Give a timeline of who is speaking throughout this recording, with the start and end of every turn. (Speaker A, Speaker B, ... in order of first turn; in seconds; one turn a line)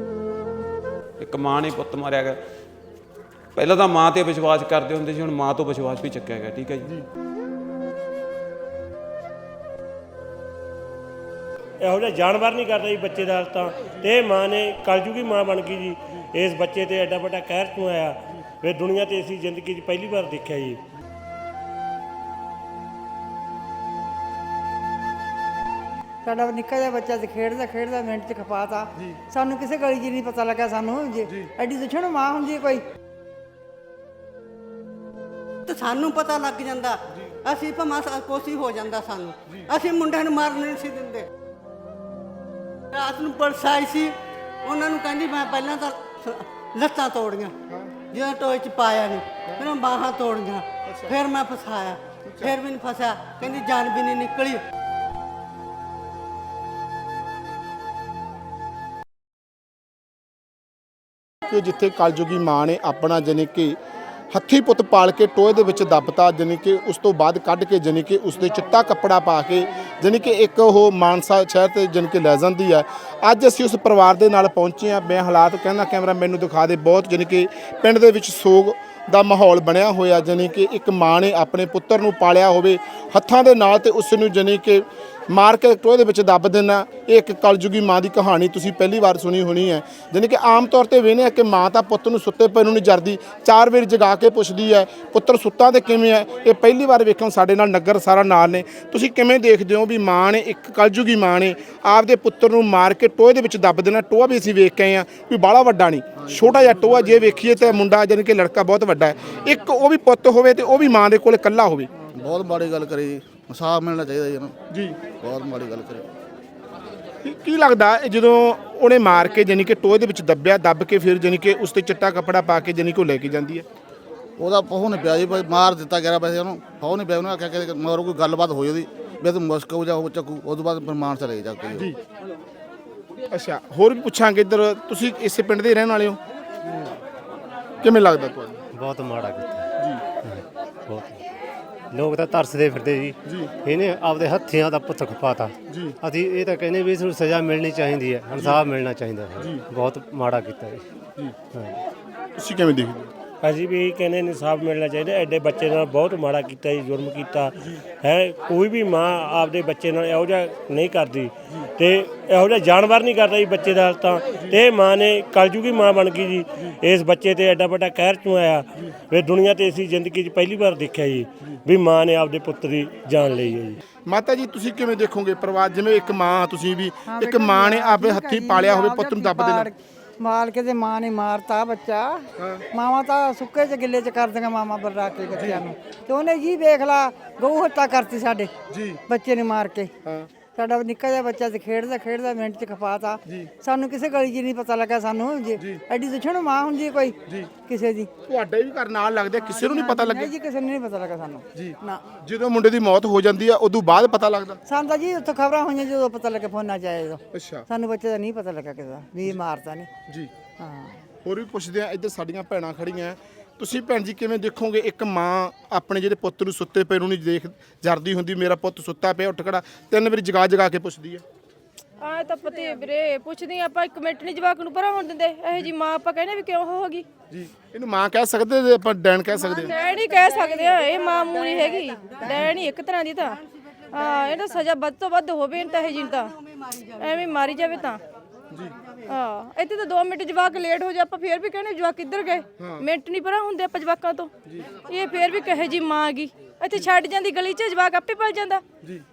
Speaker A: 1.2-2.4
Speaker A: 3.5-6.9
Speaker B: 11.8-20.8
Speaker C: 26.2-32.8
Speaker D: 35.6-41.3
Speaker D: 42.9-47.5
Speaker E: 47.7-47.9
Speaker D: 48.1-54.6
Speaker E: 50.8-51.1
Speaker E: 52.2-52.5
Speaker E: 61.5-63.8
Speaker E: 64.3-111.9
Speaker F: 106.2-107.2
Speaker F: 112.1-114.5
Speaker E: 114.7-115.0
Speaker F: 115.2-116.1
Speaker E: 117.2-123.7
Speaker F: 124.4-131.9
Speaker E: 133.3-136.2
Speaker E: 137.8-138.6
Speaker G: 138.7-139.7
Speaker G: 140.2-141.2
Speaker G: 141.9-150.8
Speaker E: 145.7-145.9
Speaker G: 151.5-151.8
Speaker E: 152.4-153.1
Speaker B: 153.4-173.8
Speaker E: 174.1-179.7
Speaker C: 177.1-188.5
Speaker E: 182.4-182.6
Speaker E: 188.7-189.0
Speaker C: 189.1-189.9
Speaker E: 190.0-190.3
Speaker C: 190.5-198.1
Speaker E: 198.3-200.3
Speaker C: 199.4-202.0
Speaker E: 201.5-204.6
Speaker C: 204.7-209.9
Speaker E: 207.3-207.6
Speaker C: 210.6-211.0
Speaker E: 211.2-221.2
Speaker H: 222.0-227.1
Speaker E: 227.3-229.7
Speaker D: 229.5-234.7
Speaker H: 229.7-233.4
Speaker E: 232.2-232.5
Speaker H: 233.9-236.3
Speaker D: 235.5-237.8
Speaker H: 237.0-238.0
Speaker H: 239.1-244.3
Speaker E: 242.6-242.8
Speaker H: 244.8-248.6